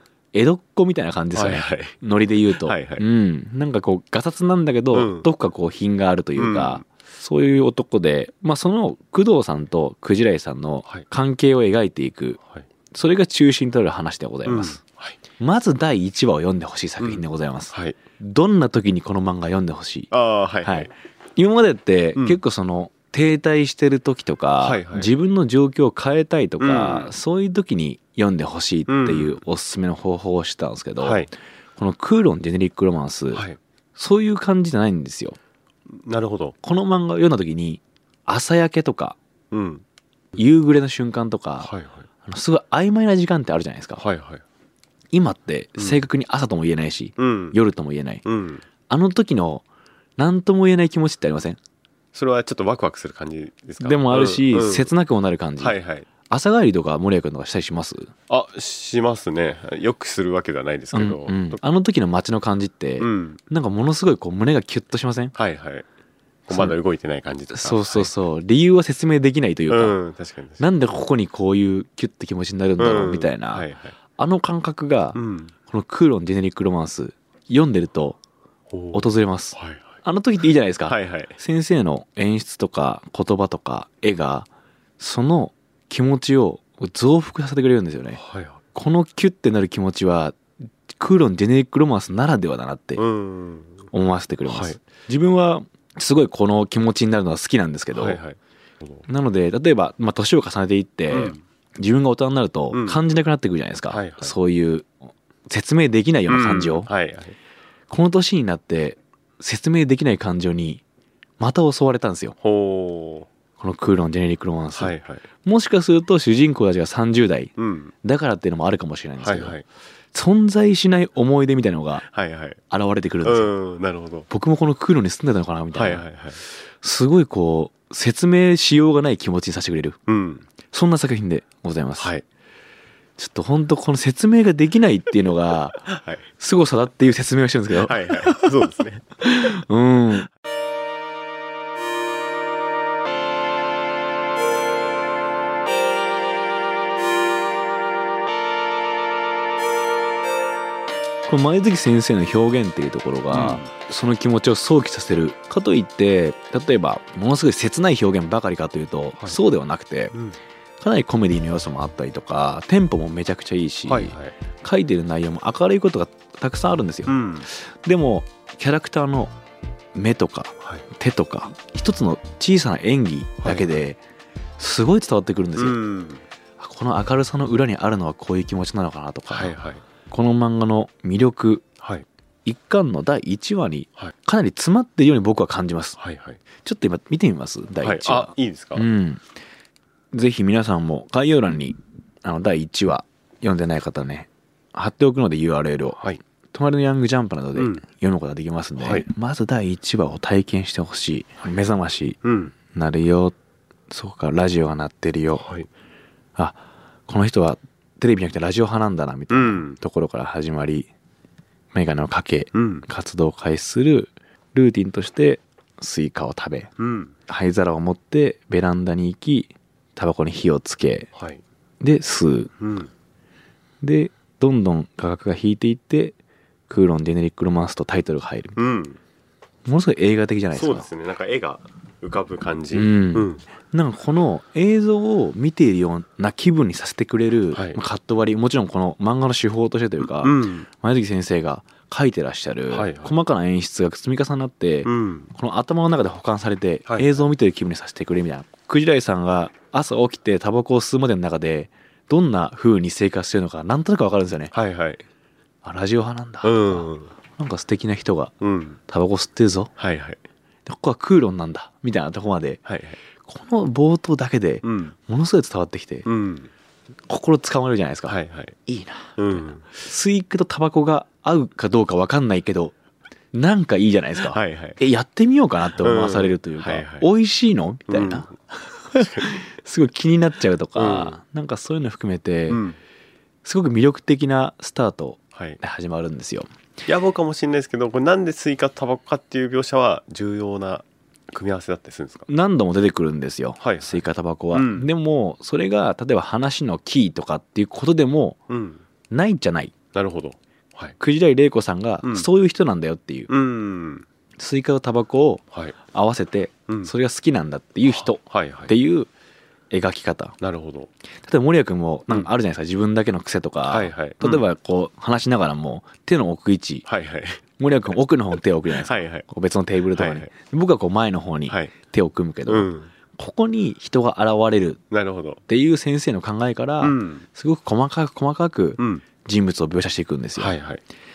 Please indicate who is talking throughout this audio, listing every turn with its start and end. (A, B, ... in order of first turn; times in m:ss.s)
0:00.3-0:12.4 A
0:01.4-0:02.0 B
0:02.5-0:03.0 B
0:04.9-0:05.3 B
0:06.4-0:06.8 B
0:12.9-0:14.8 A
0:14.4-0:15.2 B
0:15.4-0:20.1 A
0:17.0-0:18.0 B
0:20.1-0:20.9 B
0:20.6-0:35.4 A
0:24.6-0:25.1 B
0:26.6-0:27.1 B
0:28.9-0:29.4 B
0:31.0-0:31.3 B
0:33.3-0:33.6 B
0:35.9-0:36.6 B
0:36.6-0:39.2 A
0:39.5-0:39.8 B
0:40.4-0:41.7 A
0:41.6-0:42.1 B
0:42.2-0:44.0 A
0:44.0-0:44.4 B
0:45.1-0:48.2 A
0:47.2-0:47.6 B
0:48.2-0:48.6 B
0:48.9-0:49.6 A
0:50.2-0:51.6 A
0:52.1-0:54.9 B
0:53.8-0:58.1 A
0:55.6-0:56.1 B
0:58.3-1:01.6 B
1:00.9-1:05.4 A
1:03.0-1:03.4 B
1:05.4-1:05.9 B
1:06.5-1:08.1 B
1:06.5-1:06.8 A
1:07.5-1:10.0 A
1:09.7-1:10.6 B
1:10.6-1:18.2 A
1:12.8-1:14.0 B
1:15.2-1:15.5 B
1:18.7-1:19.9 B
1:18.9-1:24.5 A
1:20.8-1:21.3 B
1:25.0-1:28.2 A
1:28.1-1:28.6 B
1:28.7-1:33.0 A
1:33.0-1:33.9 B
1:33.9-1:38.2 A
1:34.4-1:34.8 B
1:37.9-1:39.1 B
1:39.1-1:44.9 A
1:41.1-1:41.4 B
1:42.7-1:43.0 B
1:43.9-1:44.4 B
1:45.5-1:46.9 A
1:46.3-1:47.4 B
1:47.9-1:50.8 A
1:51.4-1:52.4 A
1:52.4-1:53.3 B
1:53.6-1:59.6 A
1:54.7-1:55.2 B
1:57.6-1:57.9 B
1:59.2-1:59.6 B
2:00.1-2:02.0 A
2:02.0-2:02.6 B
2:02.7-2:03.5 A
2:03.2-2:04.3 B
2:04.3-2:06.1 A
2:05.7-2:06.4 B
2:06.6-2:10.0 A
2:10.1-2:10.5 B
2:10.7-2:12.1 A
2:12.0-2:12.2 B
2:13.2-2:18.7 A
2:15.9-2:16.2 B
2:17.8-2:19.0 B
2:19.2-2:20.3 A
2:31.3-2:40.2 A
2:33.3-2:33.7 B
2:40.8-2:49.3 A
2:43.9-2:44.4 B
2:47.1-2:47.5 B
2:50.0-2:54.0 A
2:50.6-2:50.9 B
2:53.4-2:53.7 B
2:54.6-2:55.8 A
2:55.6-2:56.2 B
2:56.6-2:59.6 A
2:59.3-2:59.8 B
3:00.1-3:01.6 A
3:01.8-3:02.1 B
3:02.4-3:06.0 A
3:06.0-3:06.4 B
3:06.6-3:09.2 A
3:07.8-3:08.9 B
3:10.1-3:23.4 A
3:17.6-3:17.8 B
3:18.8-3:19.1 B
3:22.2-3:22.5 B
3:23.9-3:25.6 A
3:25.4-3:25.7 B
3:26.4-3:30.9 A
3:29.3-3:29.8 B
3:31.7-3:36.7 A
3:32.5-3:32.9 B
3:36.8-3:37.1 B
3:37.3-3:41.1 A
3:41.2-3:41.4 B
3:41.8-3:42.5 A
3:42.6-3:42.9 B
3:43.8-3:46.2 A
3:46.7-3:48.6 A
3:48.6-3:49.0 B
3:49.7-3:50.9 A
3:50.5-3:53.4 B
3:52.7-4:14.5 A
3:57.5-3:57.8 B
4:00.0-4:00.7 B
4:02.7-4:03.2 B
4:04.8-4:05.3 B
4:06.9-4:07.2 B
4:14.5-4:15.0 B
4:15.6-4:18.3 A
4:16.4-4:17.1 B
4:18.4-4:18.8 B
4:18.9-4:19.7 A
4:19.8-4:20.2 B
4:20.6-4:22.6 A
4:22.7-4:23.0 B
4:23.2-4:26.1 A
4:24.6-4:25.0 B
4:26.1-4:26.5 B
4:27.1-4:32.8 A
4:28.1-4:28.6 B
4:29.2-4:29.6 B
4:33.3-4:42.7 A
4:34.2-4:34.8 B
4:35.8-4:37.1 B
4:37.9-4:38.3 B
4:39.0-4:39.3 B
4:40.8-4:41.2 B
4:42.5-4:42.8 B
4:43.4-4:46.5 A
4:45.4-4:45.6 B
4:46.8-4:52.3 B
4:52.3-4:58.4 A
4:53.6-4:54.9 B
4:58.5-4:58.8 B
4:59.1-4:59.7 A
4:59.9-5:01.0 B
5:01.0-5:03.3 A
5:02.0-5:02.3 B
5:03.3-5:04.1 B
5:04.4-5:09.1 A
5:07.8-5:08.7 B
5:09.7-5:10.4 A
5:10.4-5:10.9 B
5:11.2-5:16.9 A
5:13.7-5:14.4 B
5:16.9-5:17.4 B
5:17.6-5:24.8 A
5:18.7-5:19.2 B
5:19.9-5:20.3 B
5:21.5-5:21.7 B
5:22.5-5:22.9 B
5:24.9-5:25.4 B
5:25.5-5:30.6 A
5:26.8-5:27.3 B
5:28.8-5:29.0 B
5:30.4-5:30.8 B